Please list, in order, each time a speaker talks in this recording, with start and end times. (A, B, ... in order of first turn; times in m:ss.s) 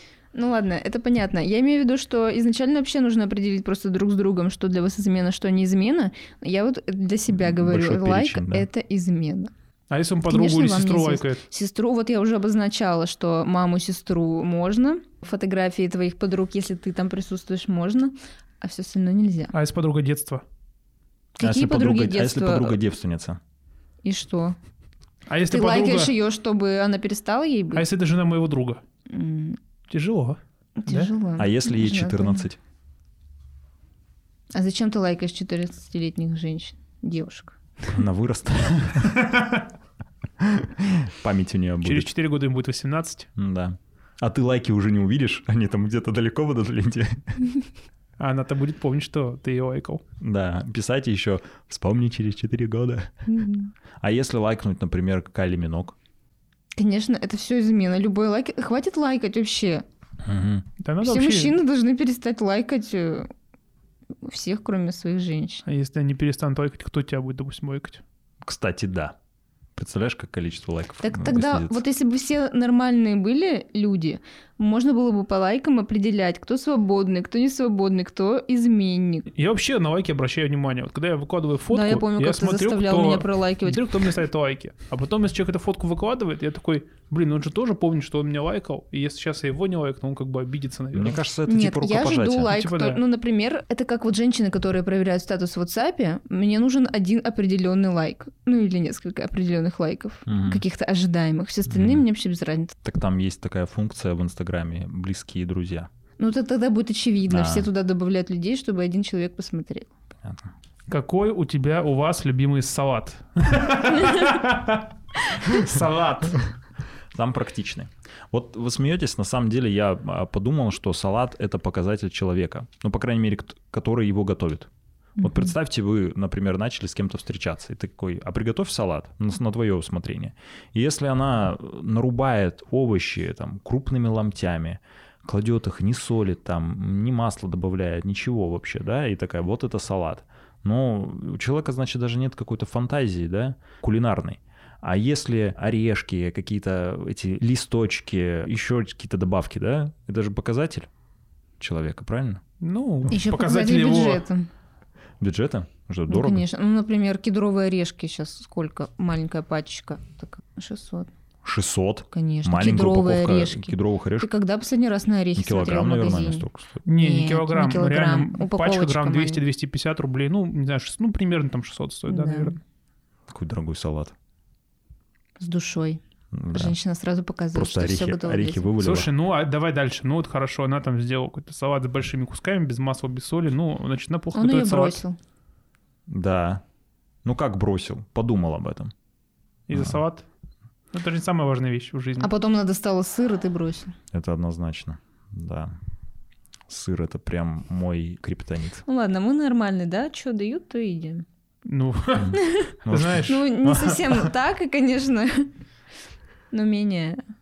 0:00.3-0:09.5 A
0:07.3-0:08.7 B
0:09.9-0:11.4 C
0:10.3-0:19.5 A
0:19.5-0:20.4 C
0:21.4-0:22.8 A
0:21.4-0:23.4 B
0:24.0-0:24.6 A
0:25.3-0:26.1 C
0:25.5-0:27.8 A
0:27.8-0:28.8 C
0:29.1-0:29.6 A
0:29.9-0:31.1 C
0:30.8-0:32.4 A
0:31.4-0:32.6 B
0:34.5-0:37.6 A
0:37.9-0:39.4 B
0:40.4-0:42.1 B
0:41.8-0:43.3 C
0:43.4-0:47.4 B
0:48.2-0:50.0 C
0:50.2-0:53.2 B
0:53.3-0:53.7 A
0:54.0-0:56.0 B
0:56.8-0:59.8 A
1:00.2-1:00.7 B
1:00.8-1:01.6 C
1:01.0-1:03.3 A
1:04.2-1:05.6 A
1:05.7-1:08.0 C
1:08.4-1:09.2 B
1:09.8-1:11.8 B
1:11.0-1:19.3 A
1:19.3-1:31.2 C
1:21.7-1:24.1 A
1:30.9-1:32.5 B
1:31.5-1:42.8 A
1:32.5-1:33.0 C
1:40.3-1:40.6 B
1:41.7-1:42.0 B
1:42.8-1:45.9 B
1:46.2-1:49.9 A
1:47.3-1:47.7 B
1:50.2-1:50.5 B
1:50.9-1:56.4 C
1:54.0-1:54.3 A
1:57.1-2:30.9 B
2:31.6-2:32.4 B
2:32.6-2:34.2 C
2:33.1-2:34.5 A
2:35.2-2:36.4 B
2:36.1-2:41.1 A
2:41.4-2:44.3 B
2:42.1-2:49.4 A
2:45.4-2:46.8 B
2:46.9-2:52.6 C
2:52.1-2:52.6 A
2:53.3-2:54.1 B
2:55.4-2:56.0 A
2:56.3-2:56.8 B
2:56.5-2:58.7 A
2:57.5-2:59.1 B
2:58.8-3:05.0 C
3:04.3-3:05.2 A
3:06.1-3:06.6 B
3:07.2-3:08.9 B
3:09.7-3:10.2 C
3:09.7-3:10.0 B
3:10.9-3:12.3 C
3:12.2-3:14.0 A
3:14.1-3:15.7 B
3:16.7-3:18.8 B
3:18.8-3:21.2 A
3:21.7-3:23.4 C
3:22.2-3:24.3 B
3:22.3-3:25.5 A
3:26.5-3:27.2 A